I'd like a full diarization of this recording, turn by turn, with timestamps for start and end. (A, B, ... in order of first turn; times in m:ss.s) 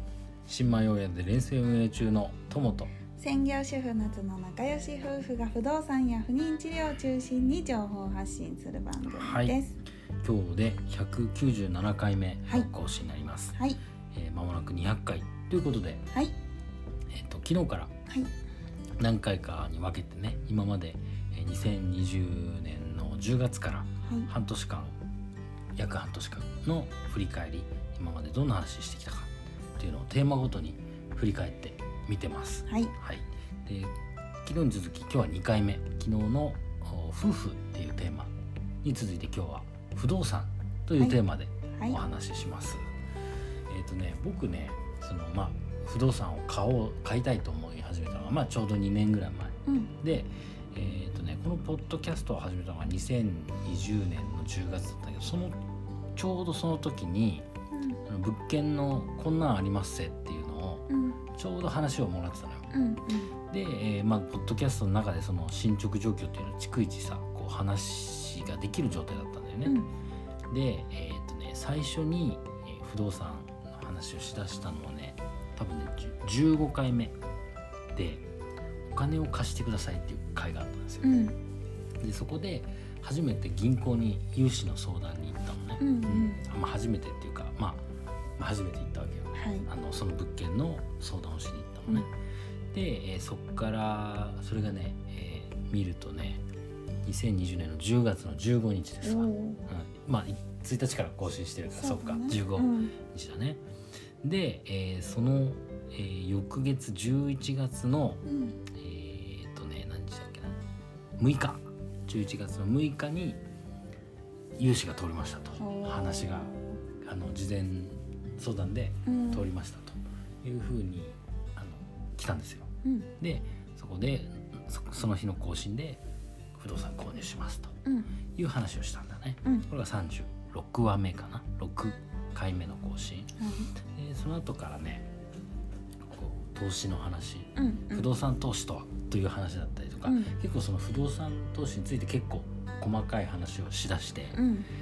0:00.4-0:02.9 A
0:03.2-0:09.8 B
0:09.1-0:09.6 A
0:10.2-0:13.6 A
0:14.1-0:16.1 A
0:17.1-0:17.9 A
0:19.0-0:24.9 A
0:24.0-0:24.3 B
0:25.8-0:33.9 A
0:32.7-0:32.9 B
0:34.4-0:38.3 A
0:38.8-0:42.8 A
0:43.7-0:55.6 A
0:49.6-0:49.9 B
0:56.1-0:57.5 A
0:57.7-0:58.0 B
0:58.1-1:02.7 A
1:00.9-1:01.2 B
1:02.7-1:03.3 B
1:03.5-1:09.8 A
1:09.6-1:09.9 B
1:10.5-1:17.2 A
1:17.9-1:18.2 A
1:18.9-1:21.1 A
1:21.0-1:21.4 B
1:22.0-1:27.8 A
1:25.8-1:26.4 B
1:28.4-1:32.1 A
1:29.3-1:29.7 B
1:32.7-1:36.4 A
1:37.0-1:43.6 A
1:39.0-1:39.6 B
1:41.8-1:42.9 B
1:44.2-1:50.6 A
1:48.2-1:48.6 B
1:51.2-1:53.4 A
1:54.6-2:06.0 A
1:55.6-1:56.8 B
1:59.0-1:59.5 B
2:06.6-2:07.7 A
2:08.3-2:15.1 A
2:13.4-2:13.7 B
2:16.1-2:24.4 A
2:17.6-2:18.1 B
2:20.0-2:20.3 B
2:24.3-2:24.7 B